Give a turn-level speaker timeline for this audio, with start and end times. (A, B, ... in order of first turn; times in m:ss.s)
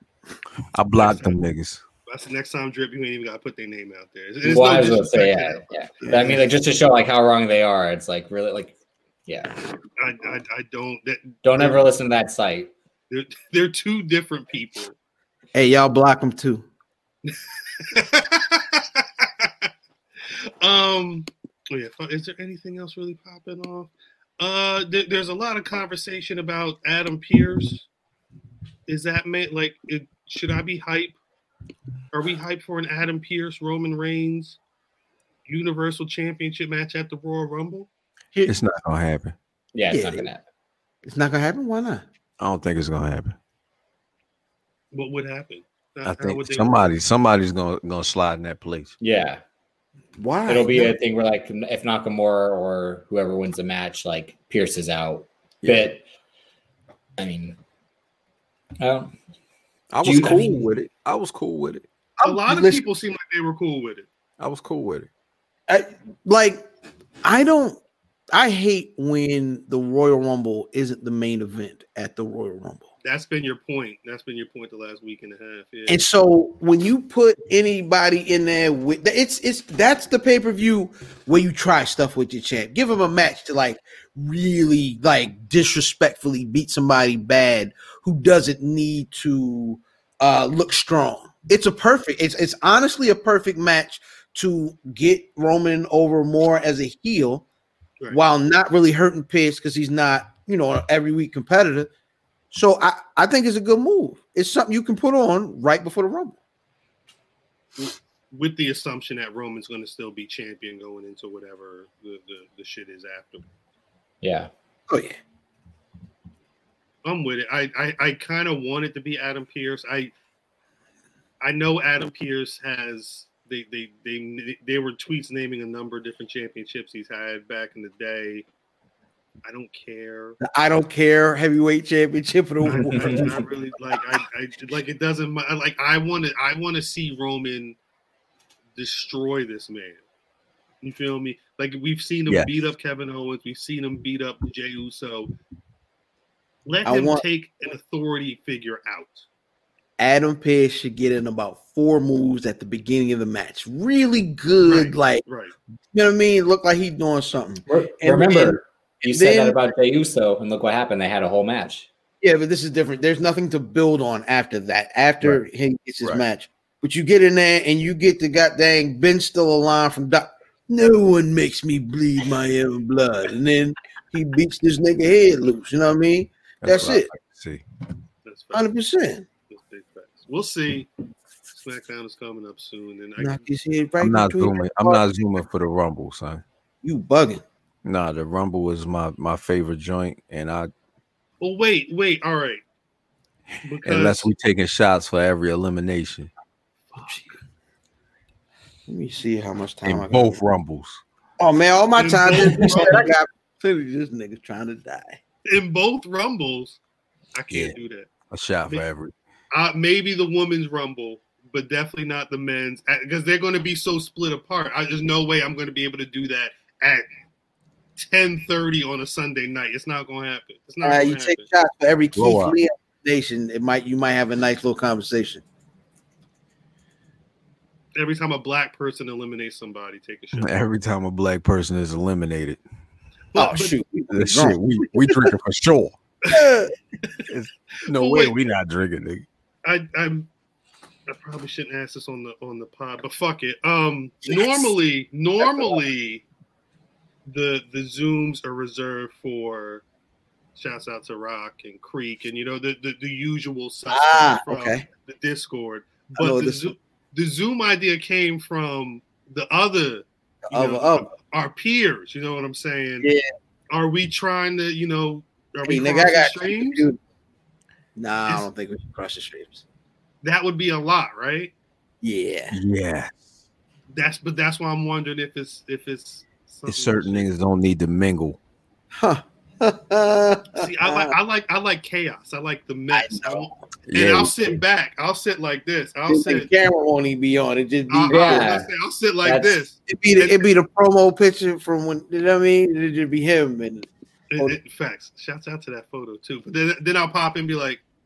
0:00.7-0:01.8 A
0:00.9-0:01.4 B
0:02.1-0:05.6 B
0:04.4-0:08.7 C
0:06.0-0:06.4 D
0:09.3-0:09.5 C
0:10.0-0:11.8 B
0:11.4-0:12.7 C
0:13.1-0:14.9 B
0:15.5-0:16.6 D
0:17.3-0:19.7 B
0:20.6-0:27.8 B
0:28.9-0:31.2 B
0:32.1-0:34.6 B
0:35.4-0:37.9 B
0:38.4-0:39.3 A
0:39.7-0:40.4 C
0:39.9-0:40.3 D
0:41.0-0:42.0 D
0:42.4-0:43.4 A
0:44.9-0:46.9 B
0:46.0-0:48.9 A
0:49.0-0:49.4 C
0:50.2-0:51.0 D
0:50.5-0:56.0 C
0:55.6-0:55.9 A
0:57.2-0:57.6 C
0:58.8-0:59.1 C
0:59.9-1:01.8 A
1:00.0-1:00.6 C
1:02.2-1:02.8 D
1:02.2-1:04.1 B
1:04.4-1:05.1 A
1:05.7-1:06.6 D
1:07.2-1:07.8 D
1:08.3-1:12.9 D
1:13.0-1:16.0 B
1:15.9-1:37.4 D
1:38.1-1:41.9 D
1:42.5-1:46.4 D
1:47.8-1:53.4 B
1:54.2-1:54.5 C
1:54.9-1:55.2 D
1:57.0-2:00.1 B
2:01.4-2:08.4 B
2:09.4-2:10.4 B
2:10.4-2:14.2 D
2:12.6-2:17.8 B
2:18.8-2:20.0 B
2:20.8-2:25.3 B
2:26.6-2:29.2 B
2:26.8-2:27.2 D
2:30.0-2:35.2 D
2:34.6-2:35.5 B
2:35.9-2:39.6 D
2:37.7-2:41.9 C
2:42.2-2:57.1 D
2:56.6-2:57.6 A
2:58.2-2:58.7 B
2:58.5-2:59.2 D
2:59.5-3:00.9 B
3:01.5-3:03.4 B
3:03.2-3:05.0 D
3:04.0-3:06.4 A
3:06.8-3:07.4 D
3:07.8-3:10.7 A
3:11.4-3:12.6 B
3:13.6-3:14.3 B
3:13.8-3:16.3 A
3:17.0-3:17.3 D
3:18.9-3:20.4 D
3:19.8-3:21.0 A
3:21.4-3:25.2 D
3:22.0-3:23.1 B
3:25.5-3:26.8 B
3:27.3-3:28.1 B
3:27.5-3:27.8 A
3:28.3-3:29.1 A
3:29.5-3:37.1 B
3:38.0-3:41.4 B
3:40.8-3:45.4 D
3:42.1-3:42.6 A
3:48.0-3:50.5 B
3:50.3-3:52.6 A
3:53.3-3:53.8 B
3:53.4-3:55.1 D
3:54.1-3:56.0 A
3:56.3-3:56.7 D
3:57.3-3:59.2 A
3:57.9-3:58.4 B
3:59.6-4:00.3 B
4:01.1-4:06.2 B
4:04.2-4:04.7 D
4:05.4-4:05.8 D
4:07.3-4:09.8 B
4:10.6-4:23.1 B
4:13.9-4:14.8 D
4:16.2-4:16.7 D
4:20.5-4:21.1 D
4:23.7-4:26.8 B
4:25.6-4:27.0 D
4:28.0-4:29.6 D
4:30.2-4:31.5 B
4:32.0-4:32.6 D
4:32.5-4:33.2 A
4:33.9-4:37.3 B
4:36.7-4:38.4 A
4:38.9-4:41.1 D
4:40.6-4:46.5 B
4:42.9-4:43.6 D
4:43.9-4:44.6 A
4:46.1-4:48.5 D
4:47.9-4:50.5 B
4:48.1-4:48.7 C
4:49.2-4:49.6 C
4:49.9-4:53.9 D
4:54.3-4:57.8 B